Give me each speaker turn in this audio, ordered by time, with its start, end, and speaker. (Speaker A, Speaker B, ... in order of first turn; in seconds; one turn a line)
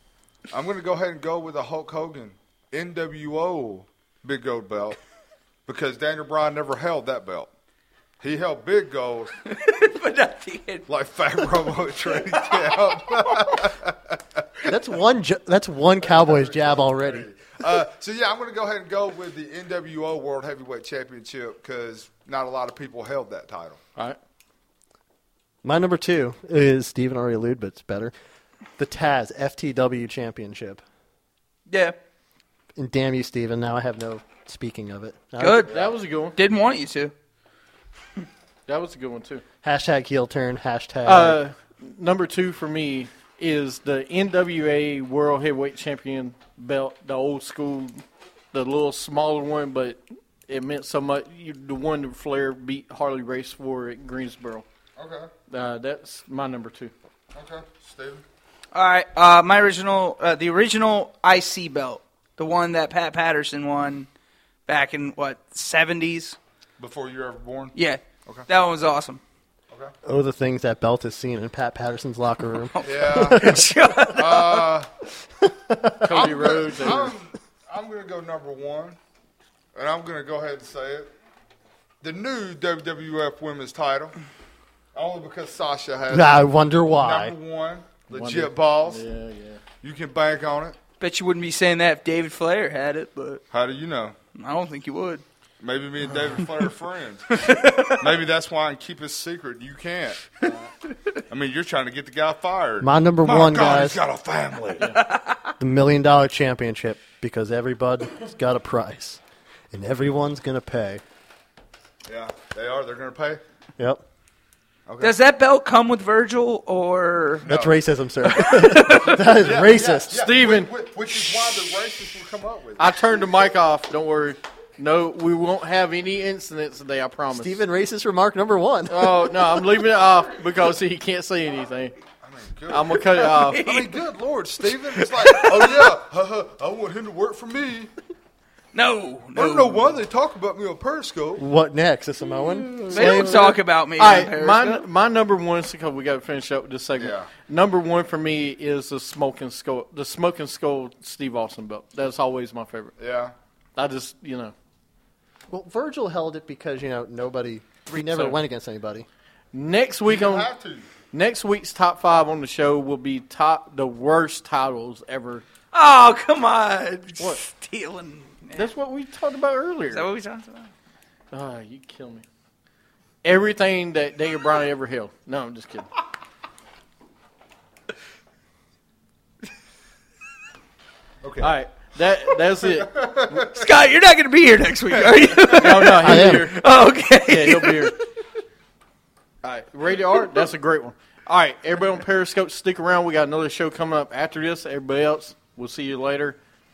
Speaker A: 0.5-5.0
Speaker A: 5.7-7.5
Speaker A: 8.2-9.3
Speaker B: 9.4-10.9
Speaker A: 10.9-14.2
Speaker B: 11.4-13.6
Speaker C: 14.7-17.3
Speaker A: 16.0-23.8
Speaker C: 25.6-28.1
Speaker C: 28.8-30.8
Speaker B: 31.7-31.9
Speaker C: 32.8-35.7
Speaker B: 35.4-35.7
Speaker D: 35.6-36.4
Speaker B: 36.4-37.1
Speaker D: 38.7-39.4
Speaker C: 39.6-41.4
Speaker D: 41.0-48.0
Speaker D: 48.5-54.6
Speaker A: 55.0-55.3
Speaker D: 55.5-56.9
Speaker A: 57.3-58.2
Speaker B: 58.7-64.1
Speaker B: 64.7-66.4
Speaker A: 66.8-68.5
Speaker B: 67.7-69.2
Speaker C: 70.0-74.2
Speaker B: 72.6-74.7
Speaker A: 72.8-73.5
Speaker A: 74.1-74.9
Speaker C: 75.4-76.2
Speaker D: 76.0-77.1
Speaker A: 76.1-79.0
Speaker A: 79.8-81.1
Speaker A: 82.0-84.2
Speaker A: 84.9-89.0
Speaker C: 86.1-87.3
Speaker D: 88.1-89.6
Speaker A: 89.8-90.8
Speaker B: 91.0-93.4
Speaker A: 93.5-94.2
Speaker B: 94.4-95.2
Speaker A: 95.6-100.7
Speaker B: 97.3-98.0
Speaker A: 101.3-105.0
Speaker C: 102.8-104.0
Speaker B: 104.8-105.5
Speaker C: 105.6-109.2
Speaker C: 109.7-111.0
Speaker A: 112.1-113.4
Speaker A: 114.9-115.2
Speaker B: 115.0-117.5
Speaker A: 117.4-117.8
Speaker C: 117.5-120.2
Speaker B: 118.2-119.3
Speaker A: 119.2-122.9
Speaker D: 120.1-120.7
Speaker D: 122.8-127.6
Speaker C: 127.3-129.4
Speaker D: 128.9-131.9
Speaker A: 132.2-133.1
Speaker D: 132.7-133.6
Speaker B: 133.2-134.0
Speaker A: 133.6-137.9
Speaker B: 134.7-135.9
Speaker B: 138.7-140.0
Speaker A: 139.3-141.4
Speaker C: 141.4-143.5
Speaker D: 142.4-152.9
Speaker B: 142.9-144.9
Speaker A: 147.0-147.3
Speaker A: 153.0-153.3
Speaker D: 153.8-154.5
Speaker C: 155.5-159.1
Speaker D: 157.9-158.4
Speaker D: 159.5-160.5
Speaker A: 160.1-160.9
Speaker D: 161.1-165.4
Speaker B: 165.7-168.7
Speaker D: 168.5-170.1
Speaker B: 169.9-170.7
Speaker D: 171.3-172.3
Speaker D: 173.2-175.9
Speaker A: 181.2-181.6
Speaker D: 181.4-183.4
Speaker A: 182.7-183.7
Speaker B: 183.5-188.0
Speaker A: 184.9-185.7
Speaker D: 185.6-186.6
Speaker C: 185.9-186.5
Speaker D: 187.2-187.9
Speaker D: 189.4-196.4